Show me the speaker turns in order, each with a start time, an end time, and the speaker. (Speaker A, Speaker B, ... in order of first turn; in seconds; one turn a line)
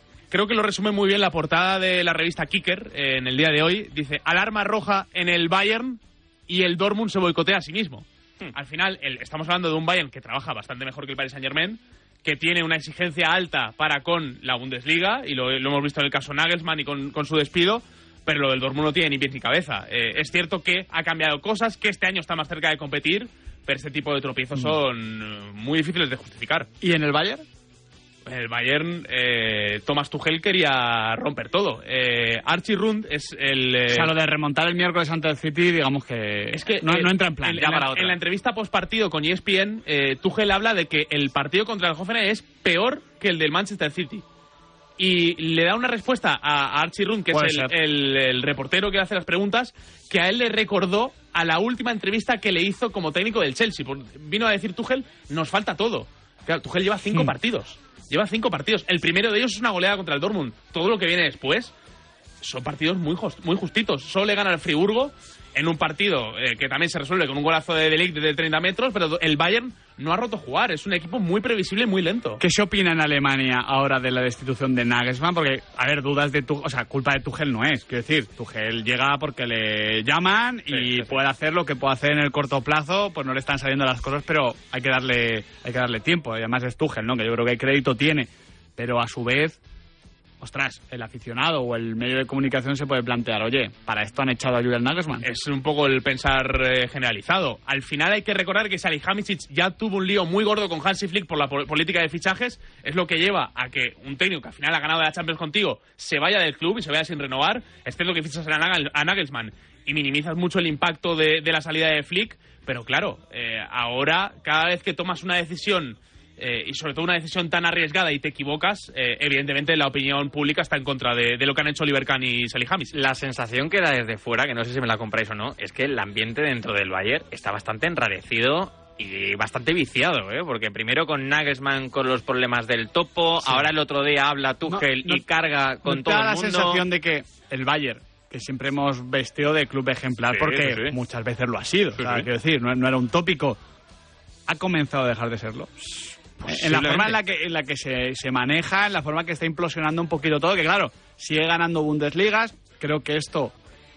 Speaker A: 0.3-26.7
Speaker B: 26.8-27.4
Speaker A: 28.3-34.1
Speaker B: 33.9-38.2
Speaker A: 36.5-44.2
Speaker A: 45.0-61.7
Speaker B: 47.3-47.7
Speaker A: 62.4-72.4
Speaker B: 72.4-89.6
Speaker C: 80.7-81.2
Speaker B: 90.4-95.3
Speaker A: 95.2-123.0
Speaker C: 122.9-136.8
Speaker B: 134.7-135.2
Speaker B: 135.8-143.6
Speaker C: 140.4-140.9
Speaker C: 142.0-142.3
Speaker B: 144.5-153.5
Speaker C: 146.4-147.2